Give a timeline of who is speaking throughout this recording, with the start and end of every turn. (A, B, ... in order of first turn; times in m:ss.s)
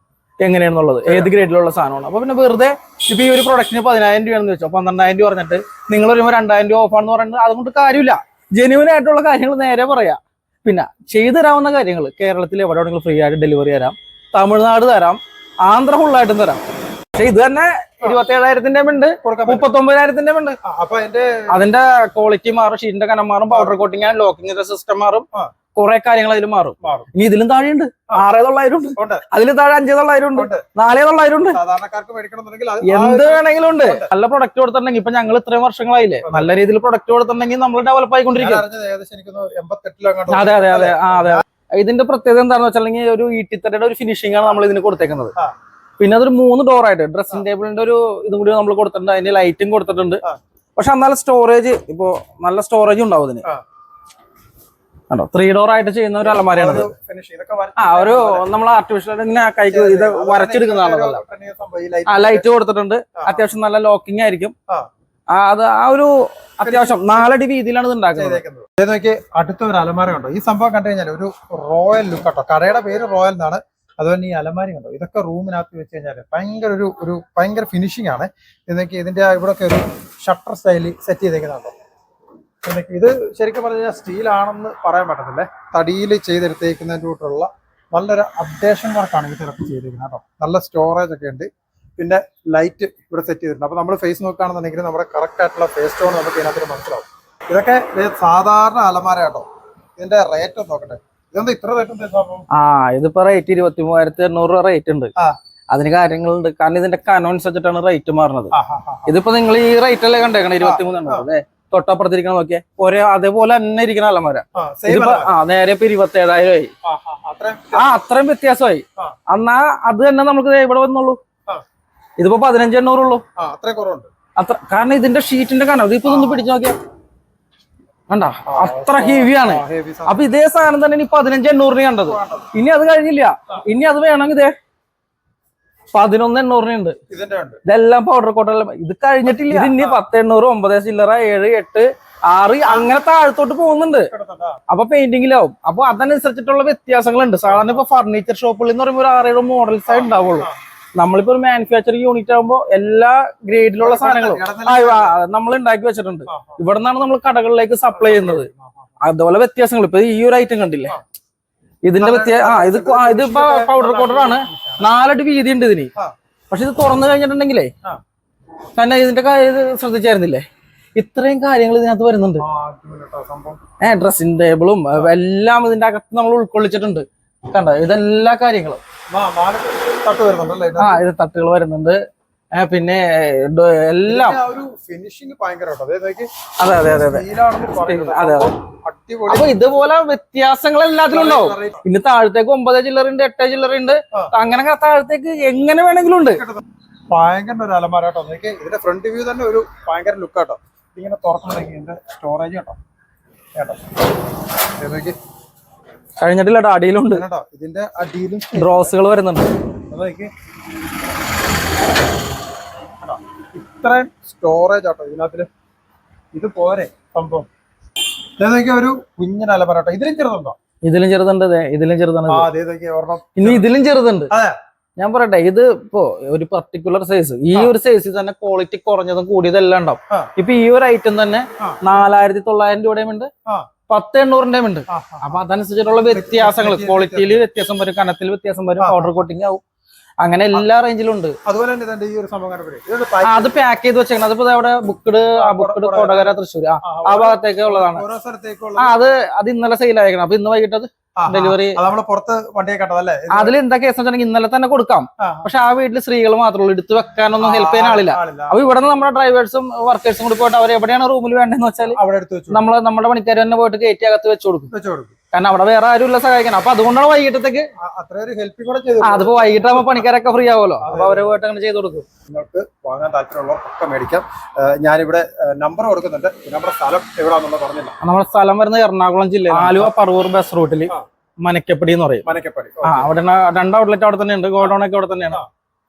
0:00.4-0:16.6 A
0:01.0-0:01.3 B
0:17.1-0:20.6 A
0:19.2-0:19.7 B
0:20.6-0:21.5 B
0:21.5-0:31.6 A
0:23.5-0:23.8 B
0:26.8-0:27.1 B
0:29.0-0:29.2 B
0:30.3-0:30.6 B
0:31.5-0:34.1 B
0:32.8-0:38.6 A
0:36.2-0:36.5 B
0:38.3-0:41.4 B
0:40.3-0:45.3 A
0:46.0-0:50.2 A
0:50.8-0:53.4 A
0:55.1-0:56.9 A
0:56.2-0:58.4 B
0:57.8-1:01.2 A
0:59.7-1:02.5 B
1:02.1-1:04.5 A
1:05.3-1:08.4 A
1:06.6-1:07.3 B
1:08.1-1:21.7 B
1:22.6-1:39.4 B
1:40.0-1:42.4 B
1:42.5-1:45.1 A
1:45.7-1:48.5 A
1:48.5-1:49.1 B
1:49.0-1:56.7 A
1:50.6-1:51.3 B
1:54.5-1:55.3 B
1:56.8-1:58.0 B
1:57.7-2:01.2 A
2:02.2-2:03.2 A
2:03.4-2:04.1 B
2:04.4-2:06.8 A
2:06.0-2:06.5 B
2:08.1-2:14.5 A
2:08.4-2:10.2 B
2:12.0-2:12.5 B
2:15.9-2:17.0 A
2:17.1-2:17.6 B
2:17.6-2:24.1 A
2:19.2-2:20.0 B
2:22.6-2:22.9 B
2:24.0-2:24.6 B
2:24.7-2:38.5 A
2:27.5-2:27.8 B
2:29.9-2:30.5 B
2:33.8-2:35.2 B
2:36.3-2:36.6 B
2:37.9-2:38.9 B
2:39.0-2:41.0 A
2:41.8-2:45.9 A
2:42.0-2:44.9 B
2:46.5-2:47.7 A
2:48.8-2:52.4 A
2:52.4-2:53.6 B
2:53.8-2:58.8 A
2:59.1-3:01.0 B
3:00.8-3:02.0 A
3:02.5-3:04.4 A
3:04.0-3:09.7 B
3:06.6-3:08.5 A
3:09.3-3:16.4 A
3:11.1-3:11.8 B
3:16.3-3:22.8 B
3:23.6-3:23.8 B
3:24.7-3:25.2 B
3:26.2-3:27.2 A
3:27.1-3:28.9 B
3:28.5-3:29.5 A
3:29.9-3:30.3 B
3:33.0-3:35.5 B
3:36.3-3:37.5 B
3:38.4-3:40.6 B
3:40.8-3:42.5 A
3:42.3-3:43.7 B
3:43.4-3:44.3 A
3:44.3-3:44.6 B
3:45.0-3:53.3 A
3:53.9-3:59.6 A
3:54.9-3:55.4 B
3:56.1-3:57.4 B
3:58.8-3:59.2 B
4:00.2-4:01.4 A
4:01.4-4:03.6 B
4:03.2-4:08.0 A
4:05.3-4:09.0 B
4:08.8-4:11.8 A
4:11.2-4:13.6 B
4:13.3-4:22.0 A
4:15.2-4:15.5 B
4:17.4-4:18.6 B
4:22.0-4:22.6 B
4:22.5-4:24.7 A
4:24.7-4:25.1 B
4:25.3-4:27.7 A
4:27.8-4:30.1 B
4:29.0-4:32.0 A
4:30.8-4:31.4 B
4:32.3-4:38.0 B
4:38.0-4:42.2 A
4:39.5-4:39.9 B
4:42.2-4:43.1 B
4:42.8-4:45.4 A